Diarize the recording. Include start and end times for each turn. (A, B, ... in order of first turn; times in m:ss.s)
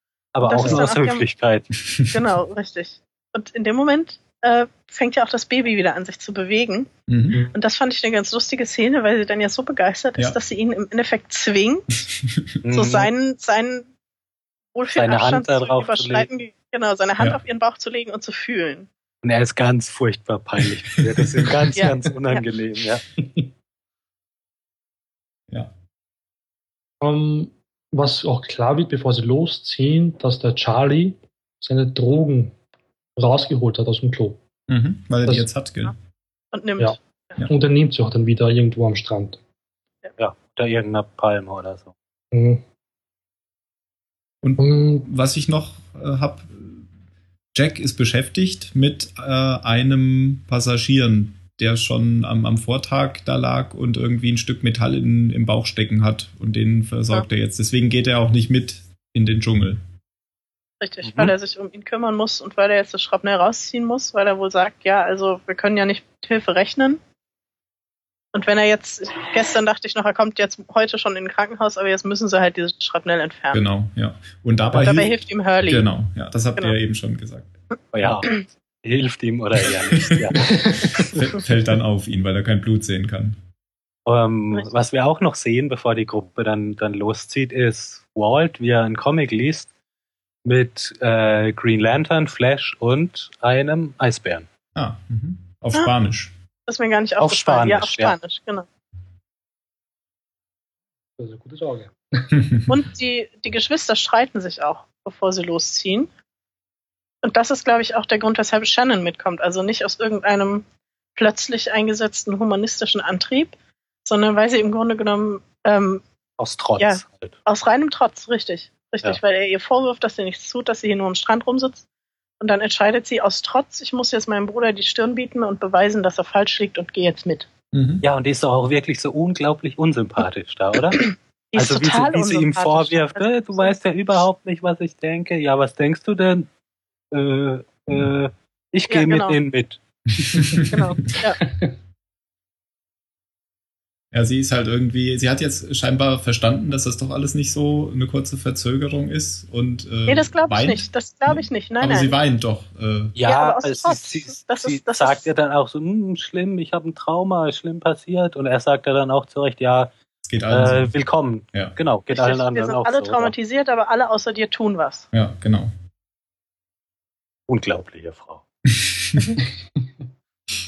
0:00.3-0:01.7 A
0:00.4-0:01.2 B
0:00.6-0:00.9 C
0:02.1-0:06.9 B
0:07.1-0:07.4 D
0:07.5-0:11.9 B
0:12.1-0:12.5 D
0:12.6-0:13.1 A
0:12.7-0:13.9 B
0:14.7-0:18.9 B
0:14.9-0:16.3 A
0:19.2-0:23.0 A
0:21.0-0:21.7 D
0:21.8-0:22.4 B
0:23.2-0:23.5 C
0:27.0-0:32.6 C
0:33.2-0:34.4 C
0:34.7-0:36.0 D
0:36.5-0:37.4 B
0:36.8-0:39.4 C
0:40.2-0:41.9 A
0:42.3-0:42.6 C
0:44.4-0:46.9 D
0:44.6-0:45.1 C
0:47.5-0:59.8 D
1:00.8-1:07.0 B
1:08.3-1:13.6 B
1:13.5-1:18.2 D
1:14.8-1:15.9 B
1:17.9-1:21.2 A
1:20.0-1:20.3 D
1:20.4-1:21.2 C
1:20.9-1:23.4 D
1:24.0-1:29.7 A
1:30.4-1:34.5 A
1:34.7-1:36.3 D
1:36.7-1:38.7 B
1:37.2-1:38.2 A
1:41.2-1:42.6 C
1:42.7-1:46.1 B
1:47.2-1:56.0 B
1:56.4-1:57.3 A
1:56.8-2:01.8 B
2:02.4-2:07.5 B
2:07.7-2:08.0 D
2:08.0-2:16.5 A
2:11.0-2:13.7 B
2:17.1-2:19.8 A
2:18.9-2:19.4 B
2:20.2-2:21.2 D
2:20.4-2:20.7 C
2:20.7-2:21.4 B
2:21.4-2:21.7 C
2:24.1-2:33.2 D
2:30.1-2:32.2 B
2:33.1-2:39.9 A
2:33.2-2:35.3 B
2:40.2-2:40.9 D
2:40.5-2:43.3 A
2:42.1-2:45.0 B
2:45.1-2:45.7 D
2:47.5-2:48.4 A